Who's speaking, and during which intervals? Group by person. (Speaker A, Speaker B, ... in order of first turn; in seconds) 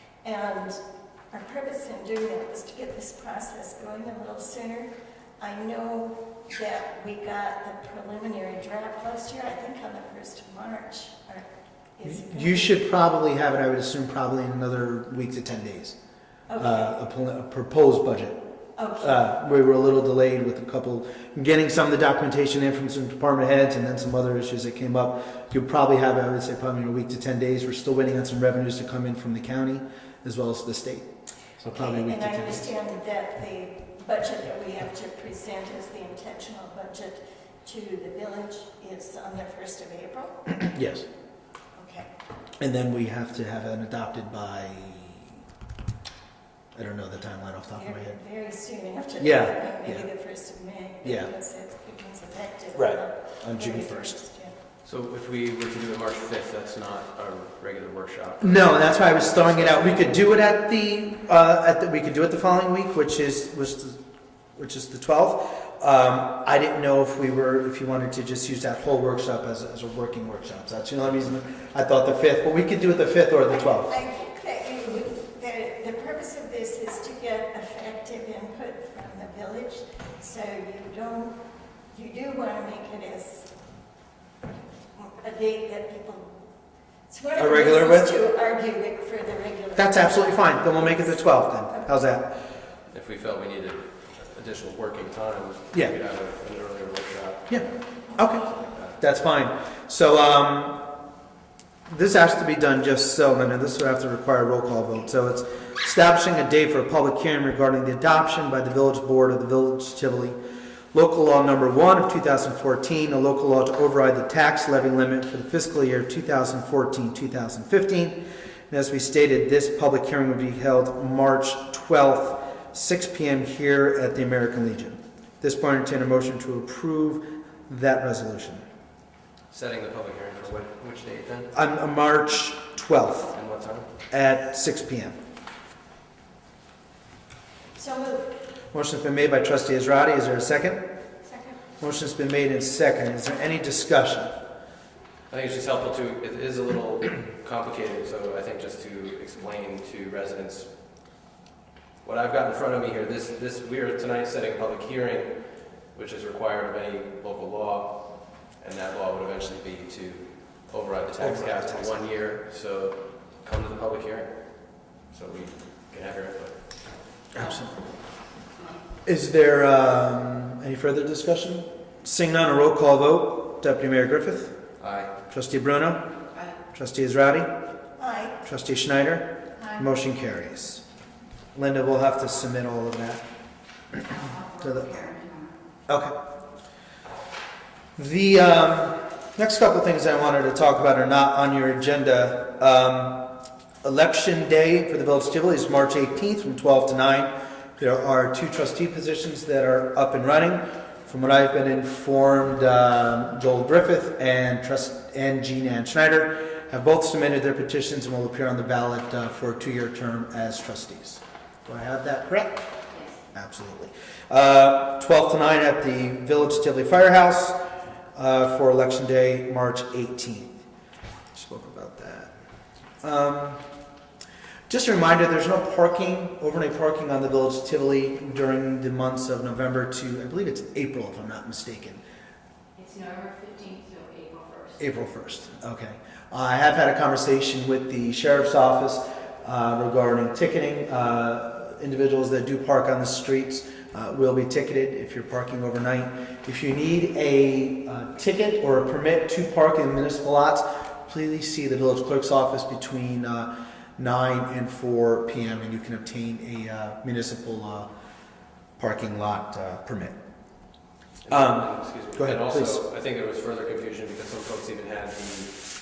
Speaker A: 0.2-0.8, 1.3-11.5, 12.0-12.8, 16.5-17.0, 18.8-19.2, 31.7-40.5, 41.8-42.1, 47.7-54.5, 73.5-81.4, 81.9-83.5, 85.0-86.3, 87.1-91.9, 137.8-138.3, 141.2-141.6, 178.0-178.4, 179.6-179.9
Speaker B: 12.1-16.0, 16.6-18.4, 19.0-31.1, 31.6-32.7, 40.6-41.0, 42.6-45.4, 46.8-48.2, 49.2-50.1, 51.0-51.3, 52.8-54.2, 58.4-64.0, 64.6-73.9, 87.4-88.1, 89.8-92.3, 98.2-98.5, 99.0-100.8, 101.9-110.4, 110.9-118.2, 118.7-128.6, 131.5-133.3, 134.1-135.2, 138.7-140.8, 141.8-144.3, 161.2-161.9, 167.3-167.8, 169.1-174.5, 175.3-176.0, 176.7-177.5, 178.4-180.8, 181.6-183.2, 184.0-184.9, 185.9-186.1, 188.0-193.2, 193.8-212.6, 213.3-217.6, 218.2-220.5, 221.3-222.3, 223.0-223.6, 224.7-232.0, 234.8-257.9, 258.8-260.1, 261.3-262.8
Speaker C: 54.8-60.2, 92.9-99.0, 129.5-131.5, 133.3-133.9, 145.3-150.7, 152.0-155.3, 155.9-158.0, 158.6-164.3, 165.1-166.6, 174.8-175.1, 261.2-265.6
Speaker D: 184.0-185.6, 212.9-213.2, 232.8-234.9